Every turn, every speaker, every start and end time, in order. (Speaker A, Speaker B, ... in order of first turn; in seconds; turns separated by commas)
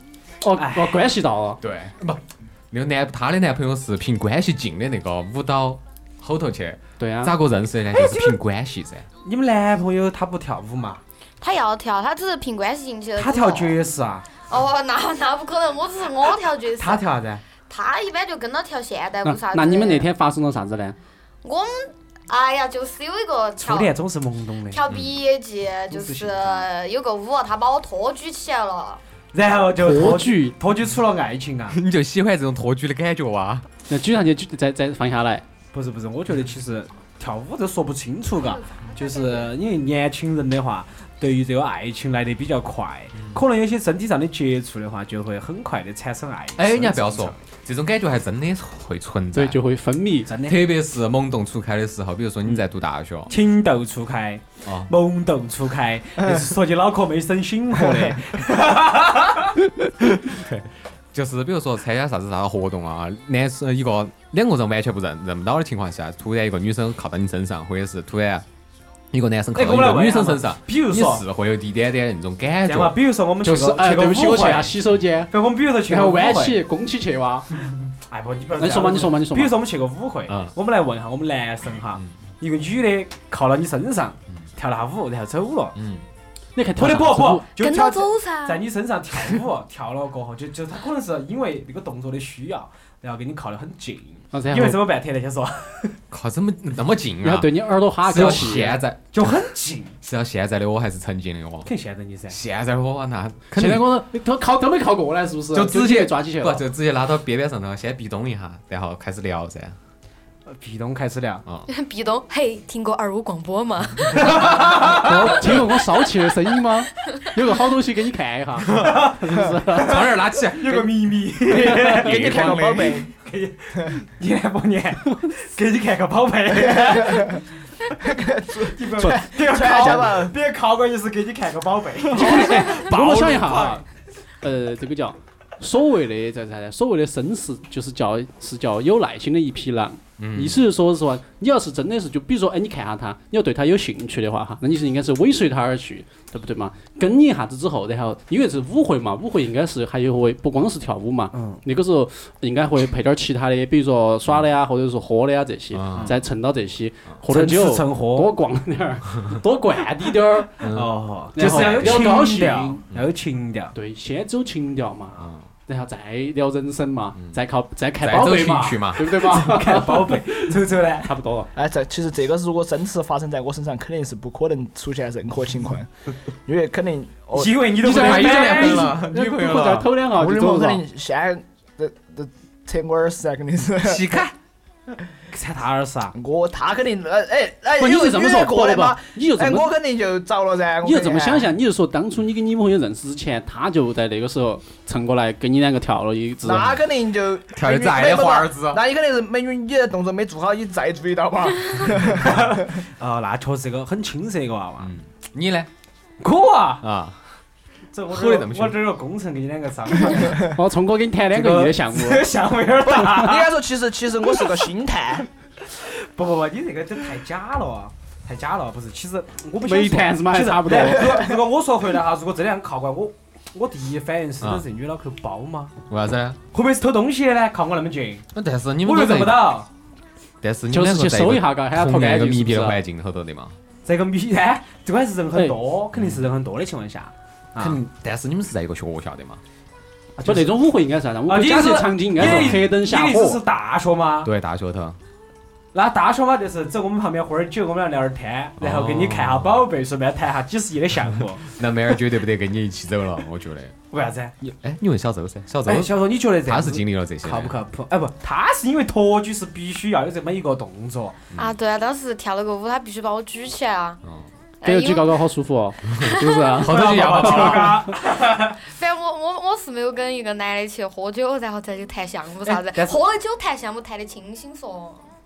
Speaker A: 0.4-1.6, Speaker B: 0.6-1.0, Speaker C: 1.6-9.1, Speaker A: 7.0-7.3, Speaker B: 7.9-8.4, Speaker B: 9.2-11.0, Speaker D: 11.4-13.8, Speaker B: 13.2-14.3, Speaker D: 14.4-17.0, Speaker B: 16.8-17.4, Speaker D: 17.6-20.1, Speaker A: 19.2-20.9, Speaker D: 21.4-23.9, Speaker B: 23.6-24.8, Speaker D: 24.7-29.0, Speaker B: 25.9-26.7, Speaker B: 29.3-31.8, Speaker A: 29.8-30.6, Speaker C: 31.7-33.7, Speaker A: 33.9-35.4, Speaker B: 35.7-47.4, Speaker D: 38.4-39.5, Speaker C: 46.5-49.6, Speaker A: 49.3-50.3, Speaker B: 50.3-50.7, Speaker C: 50.4-53.3, Speaker B: 53.3-59.5, Speaker C: 54.6-54.9, Speaker C: 60.3-68.4, Speaker C: 69.1-73.0, Speaker B: 69.5-71.2, Speaker B: 72.6-74.8, Speaker A: 73.4-75.3, Speaker B: 75.3-76.6, Speaker A: 75.9-77.5, Speaker B: 78.1-85.8, Speaker A: 78.6-79.5, Speaker C: 85.7-86.0, Speaker A: 86.5-87.4, Speaker B: 86.8-96.0, Speaker D: 87.6-88.6, Speaker A: 94.3-94.8, Speaker C: 96.1-99.3, Speaker A: 97.2-98.8, Speaker B: 99.1-100.0, Speaker C: 100.0-101.7, Speaker B: 101.6-102.4, Speaker C: 102.3-104.0, Speaker A: 103.5-106.6, Speaker C: 105.5-109.8, Speaker B: 110.5-111.4, Speaker D: 111.7-114.5, Speaker B: 114.1-115.1, Speaker A: 114.9-120.0, Speaker C: 118.6-119.1, Speaker B: 118.8-127.4, Speaker C: 119.7-120.9, Speaker E: 121.5-123.1, Speaker C: 121.9-123.0, Speaker E: 126.5-127.4, Speaker E: 128.0-130.3, Speaker B: 128.6-133.8, Speaker A: 129.0-130.0, Speaker A: 132.1-133.8, Speaker C: 132.9-133.4, Speaker A: 134.4-160.5, Speaker C: 140.2-140.6, Speaker B: 151.3-151.6, Speaker C: 155.7-156.1, Speaker B: 157.3-158.3, Speaker C: 160.6-162.3, Speaker B: 160.6-163.7, Speaker A: 161.3-162.8, Speaker A: 163.7-170.5, Speaker C: 165.2-165.4, Speaker C: 168.0-169.2, Speaker B: 169.2-171.1, Speaker A: 171.0-171.5, Speaker E: 171.5-175.9, Speaker E: 176.4-177.6, Speaker B: 177.3-178.9, Speaker A: 177.8-180.8, Speaker C: 177.9-179.9, Speaker E: 180.0-184.1, Speaker C: 183.8-184.3, Speaker B: 185.3-186.1, Speaker E: 186.1-191.5, Speaker A: 187.8-189.7, Speaker A: 190.8-196.8, Speaker E: 196.4-202.7, Speaker C: 197.5-198.8, Speaker B: 202.1-204.9, Speaker C: 204.8-205.7, Speaker B: 206.2-206.9, Speaker C: 206.8-207.2, Speaker B: 207.9-210.5, Speaker C: 208.1-208.8, Speaker A: 210.5-212.2, Speaker B: 211.3-213.6, Speaker E: 212.8-215.3, Speaker B: 215.6-225.7, Speaker A: 219.6-221.2, Speaker C: 225.9-226.4, Speaker B: 226.5-228.2, Speaker C: 228.3-229.6, Speaker B: 228.8-229.7, Speaker C: 230.4-233.6, Speaker A: 230.7-232.8, Speaker B: 233.8-237.8, Speaker C: 235.9-236.2, Speaker C: 237.6-239.4, Speaker A: 240.2-243.4, Speaker B: 240.2-240.5, Speaker B: 241.3-244.3, Speaker C: 242.2-242.6, Speaker C: 244.2-245.0, Speaker B: 245.7-251.5, Speaker C: 248.6-249.7, Speaker C: 251.6-253.7, Speaker B: 253.9-254.3, Speaker C: 254.4-257.5, Speaker B: 255.7-261.2, Speaker D: 261.4-264.0, Speaker D: 264.6-265.2, Speaker A: 264.6-267.7, Speaker D: 266.0-266.4, Speaker C: 266.6-267.9, Speaker B: 266.6-268.6, Speaker D: 268.7-275.0, Speaker B: 272.4-273.0